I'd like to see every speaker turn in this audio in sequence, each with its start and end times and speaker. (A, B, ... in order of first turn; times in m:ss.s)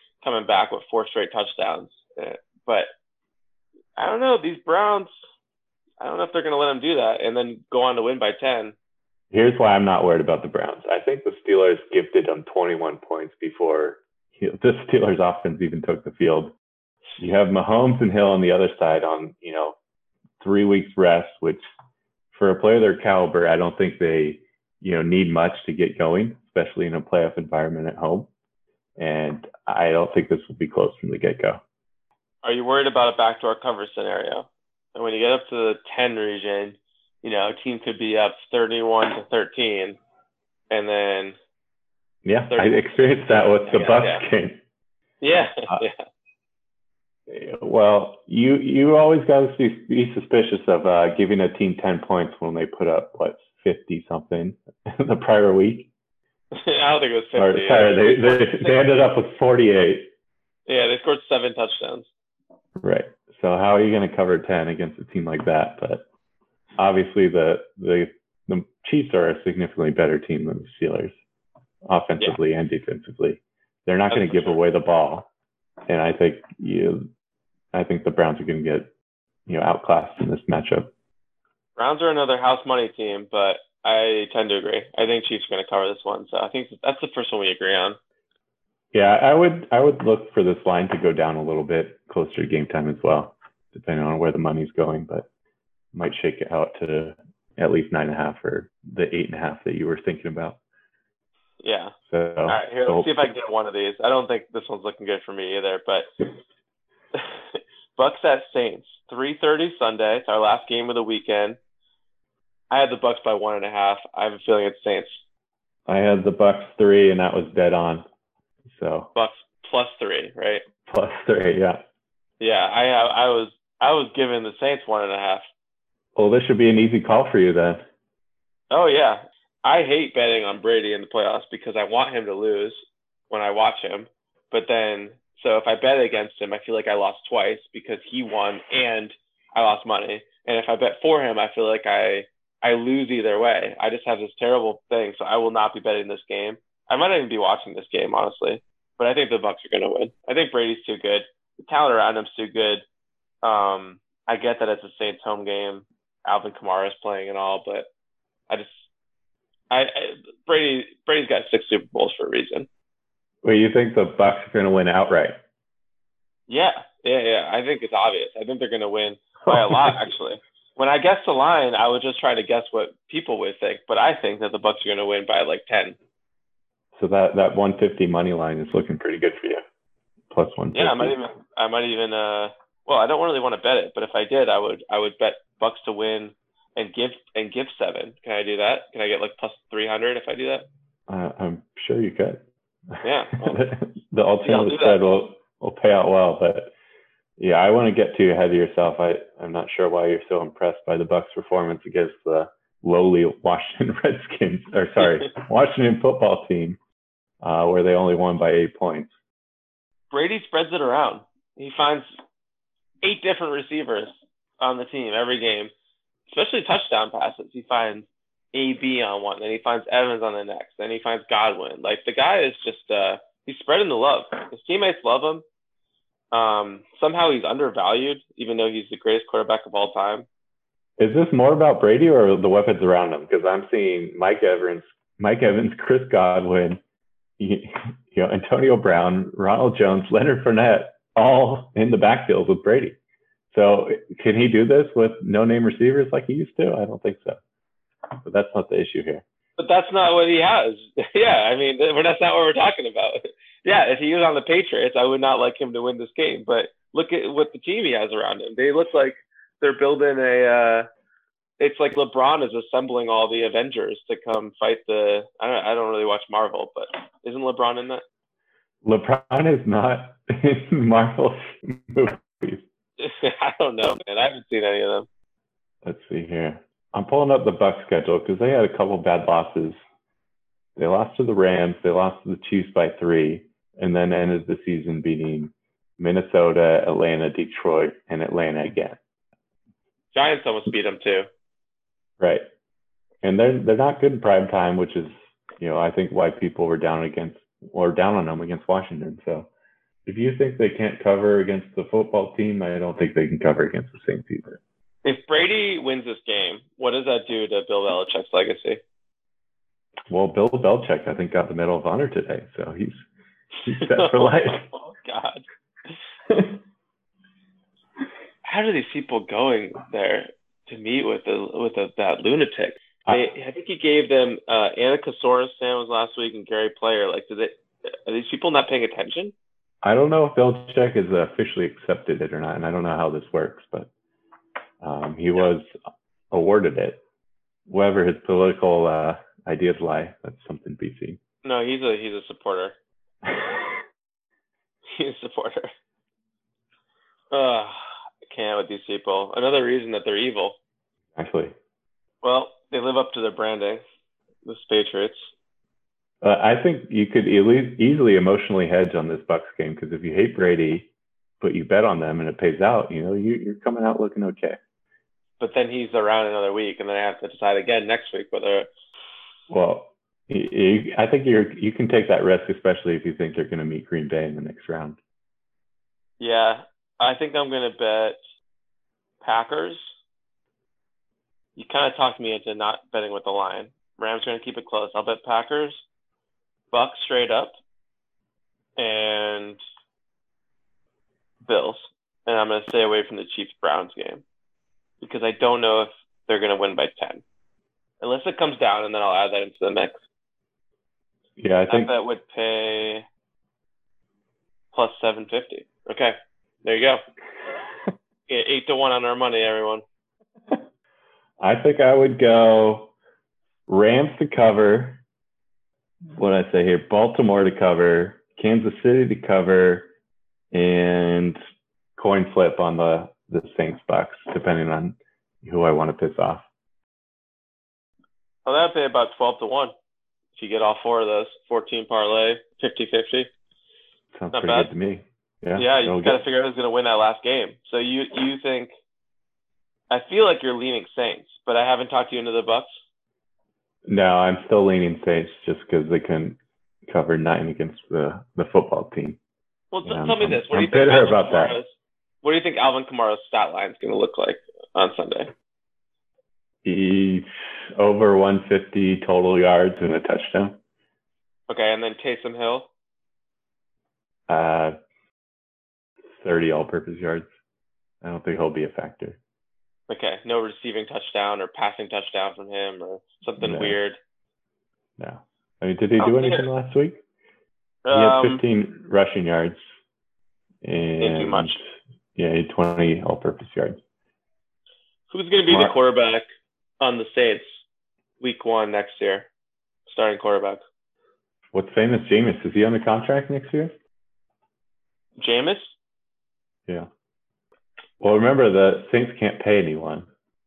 0:00.2-0:02.9 A
0:04.0-0:05.1 A
0:06.0-0:08.7 A
0:09.3-0:16.5 B
0:17.2-0:19.8 B
0:20.4-0:21.6 B
0:22.3-0:28.3 B
0:29.0-0:31.6 B
0:32.4-0:40.0 A
0:40.7-0:41.4 A
0:42.2-0:44.6 B
0:42.5-0:44.2 A
0:45.2-0:46.0 A
0:47.3-0:55.9 B
0:56.5-0:58.8 A
0:57.4-1:00.1 B
1:00.7-1:02.1 A
1:02.8-1:06.0 B
1:06.8-1:11.2 B
1:11.9-1:15.3 B
1:14.1-1:14.6 A
1:15.9-1:17.1 B
1:17.7-1:18.9 B
1:19.5-1:20.9 B
1:21.8-1:28.0 A
1:28.9-1:35.3 B
1:35.9-1:40.6 B
1:41.6-1:41.9 A
1:42.1-1:43.2 B
1:42.5-1:46.1 A
1:47.1-1:51.6 A
1:52.7-1:55.2 A
1:55.9-1:58.0 B
1:58.7-1:59.1 B
1:59.1-2:00.6 A
2:00.9-2:01.8 B
2:02.4-2:05.4 A
2:06.2-2:07.8 B
2:08.7-2:12.8 A
2:13.3-2:32.8 A
2:33.4-2:37.9 A
2:38.5-2:38.8 A
2:39.7-2:42.7 A
2:43.4-2:45.4 B
2:46.5-2:56.0 A
2:49.5-2:50.0 B
2:56.9-2:59.6 B
3:00.3-3:01.2 B
3:00.7-3:10.6 A
3:11.1-3:12.4 B
3:13.0-3:16.7 B
3:13.0-3:13.6 A
3:14.4-3:15.2 A
3:17.4-3:26.8 B
3:27.4-3:29.1 B
3:30.1-3:32.1 A
3:33.0-3:35.7 A
3:36.3-3:45.4 A
3:46.3-3:50.2 A
3:51.0-3:56.8 B
3:57.4-4:03.0 B
4:03.5-4:07.4 B
4:08.2-4:09.2 B
4:09.6-4:20.9 A
4:21.6-4:28.0 A
4:28.8-4:32.6 B
4:33.0-4:35.1 A
4:35.8-4:39.8 B
4:40.8-4:49.0 B
4:50.1-4:51.3 A
4:53.2-4:59.5 B
5:00.0-5:04.6 B
5:05.0-5:08.8 A
5:10.1-5:13.0 B
5:13.6-5:14.7 B
5:13.6-5:15.4 A
5:16.3-5:16.6 B
5:18.4-5:29.3 A
5:29.8-5:33.9 B
5:34.8-5:35.7 B
5:36.3-5:37.0 B
5:37.7-5:41.2 B
5:41.4-5:42.7 A
5:44.9-5:45.7 A
5:47.3-5:50.6 A
5:51.1-5:51.5 B
5:52.2-5:53.8 A
5:54.4-5:55.3 A
5:56.2-6:00.9 B
6:01.4-6:04.6 B
6:05.4-6:08.7 A
6:09.5-6:15.0 B
6:16.2-6:18.2 A
6:19.2-6:19.9 A
6:21.6-6:25.8 A
6:26.7-6:27.6 A
6:28.8-6:29.6 A
6:31.4-6:34.2 A
6:35.0-6:37.2 A
6:38.0-6:40.0 A
6:41.4-6:41.9 B
6:41.7-6:43.0 A
6:44.7-6:47.0 A
6:48.3-6:49.8 A
6:51.4-6:52.9 B
6:53.7-6:55.0 B
6:56.2-6:59.9 B
7:00.5-7:01.4 B
7:02.0-7:06.4 B
7:08.4-7:09.7 A
7:10.4-7:13.3 A
7:14.1-7:16.2 B
7:14.3-7:14.7 A
7:15.6-7:18.7 A
7:19.9-7:22.8 A
7:23.9-7:29.2 B
7:29.7-7:31.7 A
7:29.9-7:31.5 B
7:32.2-7:35.3 A
7:36.6-7:40.6 B
7:41.5-7:42.7 A
7:44.3-7:44.7 B
7:46.2-7:47.3 B
7:48.0-7:49.2 B
7:49.9-7:54.0 A
7:53.4-7:53.8 B
7:55.0-7:57.0 B
7:56.0-7:56.4 A
7:57.8-7:58.4 A
7:57.9-7:59.6 B
8:00.6-8:01.6 B
8:01.0-8:01.6 A
8:02.2-8:03.8 B
8:05.1-8:06.2 A
8:06.8-8:07.6 A
8:08.2-8:09.3 A
8:09.9-8:10.6 A
8:11.5-8:13.7 B
8:15.2-8:15.7 A
8:18.0-8:20.1 B